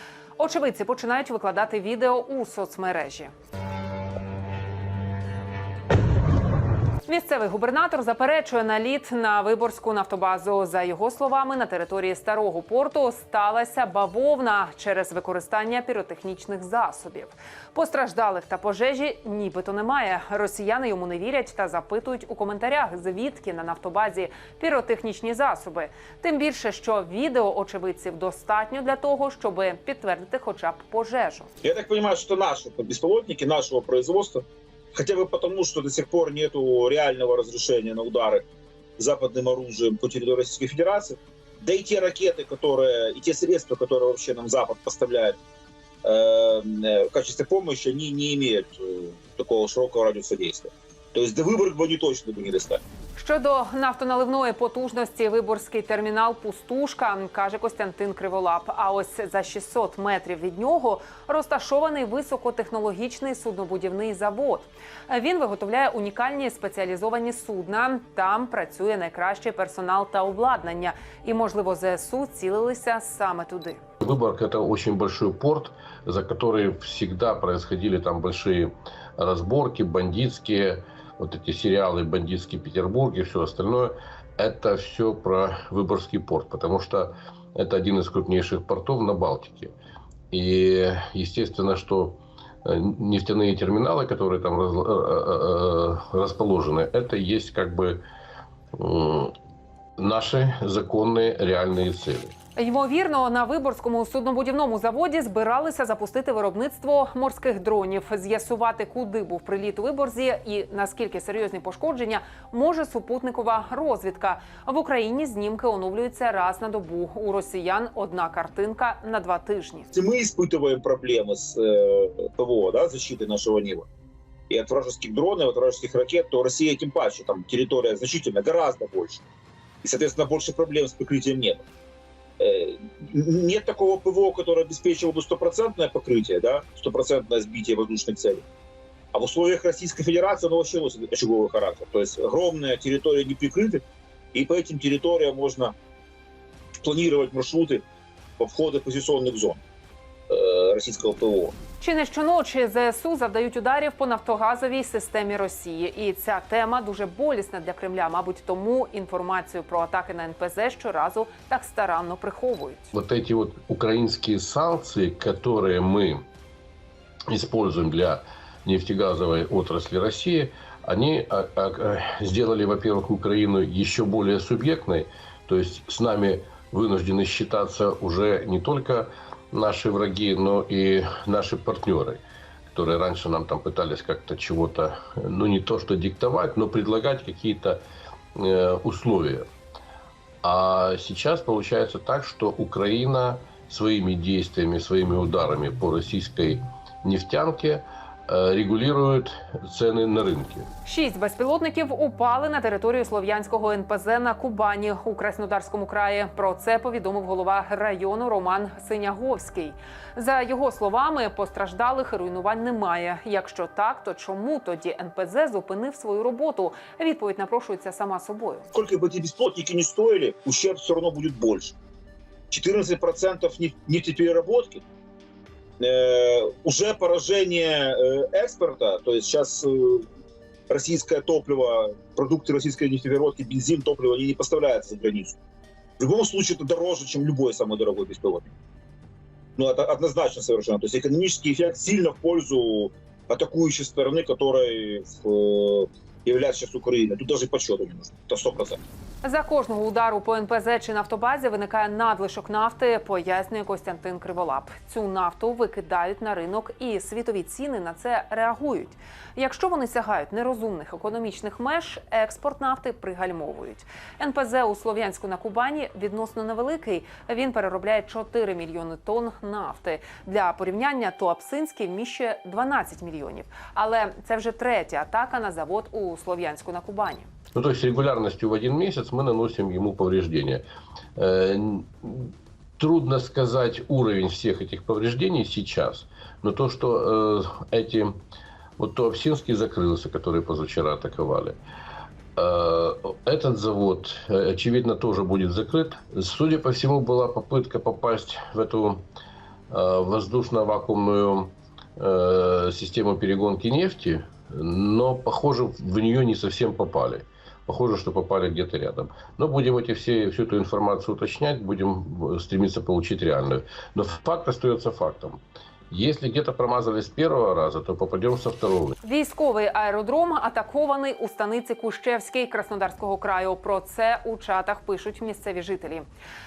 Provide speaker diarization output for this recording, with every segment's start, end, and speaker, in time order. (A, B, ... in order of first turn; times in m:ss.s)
0:00.4-0:03.3 A
0:07.0-0:31.5 A
0:31.6-0:38.4 B
0:39.0-0:45.4 B
0:46.0-0:52.8 B
0:53.2-1:13.8 A
1:14.0-1:29.7 C
1:30.3-1:38.0 C
1:38.7-1:39.3 C
1:40.0-1:42.3 C
1:42.6-1:59.9 A
1:59.9-2:03.9 B
2:04.5-2:09.2 B
2:09.8-2:11.7 B
2:12.4-2:18.4 B
2:19.1-2:23.8 B
2:24.3-2:25.7 B
2:26.8-2:27.8 B
2:28.4-2:29.6 B
2:30.3-2:31.6 B
2:31.8-2:42.9 A
2:42.9-2:46.3 C
2:47.3-3:07.8 C
3:08.3-3:09.5 C
3:10.4-3:20.7 C
3:20.8-3:38.7 A
3:38.7-3:41.7 B
3:42.5-3:44.8 B
3:45.8-3:50.1 B
3:50.7-3:55.4 B
3:56.0-3:58.5 B
3:59.6-4:08.8 B
4:09.2-4:37.3 A
4:37.6-4:40.6 C
4:41.2-4:48.2 C
4:48.8-4:51.6 C
4:52.4-4:59.0 C
4:59.7-5:19.0 C
5:19.0-5:26.1 A